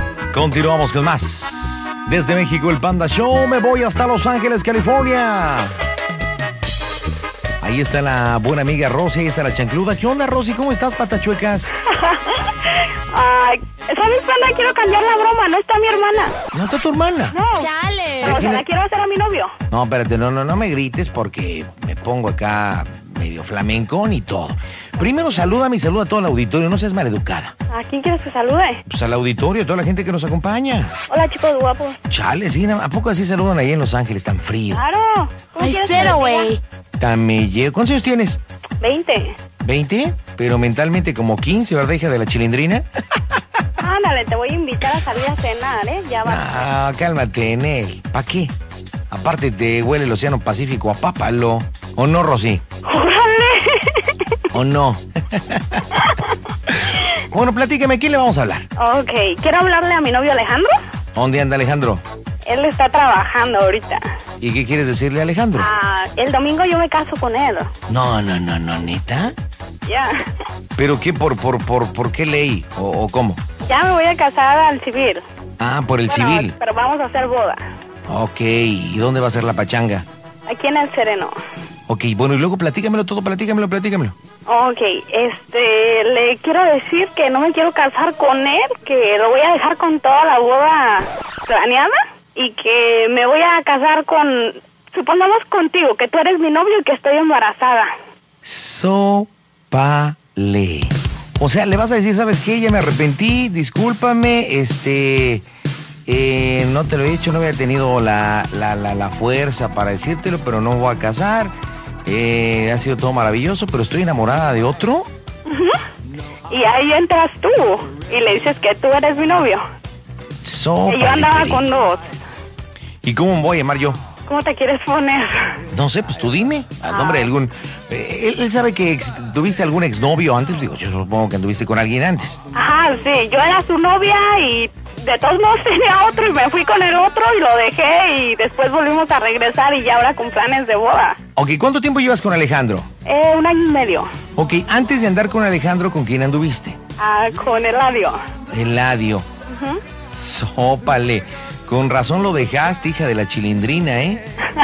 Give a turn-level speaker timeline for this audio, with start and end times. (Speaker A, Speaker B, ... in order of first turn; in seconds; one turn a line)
Speaker A: 0.3-5.7
Speaker A: 7.6-11.7
Speaker B: 11.9-16.4
Speaker A: 16.5-17.4
Speaker B: 17.3-17.7
Speaker C: 17.5-18.4
Speaker A: 18.2-18.7
Speaker B: 18.2-19.5
Speaker A: 19.7-27.6
Speaker B: 27.7-28.8
Speaker A: 28.9-30.9
Speaker B: 31.1-32.0
Speaker A: 32.1-34.8
Speaker B: 34.7-36.6
Speaker C: 35.6-36.6
Speaker A: 37.0-38.4
Speaker B: 38.8-39.4
Speaker A: 39.6-43.2
Speaker B: 43.8-46.6
Speaker A: 46.2-48.5
Speaker A: 49.1-52.6
Speaker B: 52.9-54.2
Speaker A: 54.5-56.0
Speaker A: 56.7-58.7
Speaker B: 58.8-60.8
Speaker A: 61.1-62.0
Speaker B: 62.5-64.0
Speaker A: 64.4-65.7
Speaker B: 65.6-67.7
Speaker A: 67.9-69.3
Speaker B: 69.9-70.2
Speaker A: 70.8-73.4
Speaker B: 73.7-75.2
Speaker A: 75.6-76.5
Speaker B: 76.1-77.6
Speaker A: 78.1-80.1
Speaker B: 80.5-81.4
Speaker A: 81.9-84.2
Speaker B: 84.5-97.9
Speaker A: 98.4-105.5
Speaker A: 106.1-111.5
Speaker A: 112.0-115.1
Speaker B: 115.5-115.8
Speaker B: 116.5-119.7
Speaker A: 120.4-121.7
Speaker B: 120.9-122.1
Speaker A: 123.0-124.0
Speaker B: 124.3-125.6
Speaker A: 125.7-132.4
Speaker B: 126.9-127.2
Speaker B: 132.5-141.2
Speaker A: 141.4-142.9
Speaker B: 143.1-144.1
Speaker A: 144.4-146.8
Speaker B: 147.0-148.2
Speaker A: 148.5-149.3
Speaker B: 149.5-149.8
Speaker A: 150.1-154.2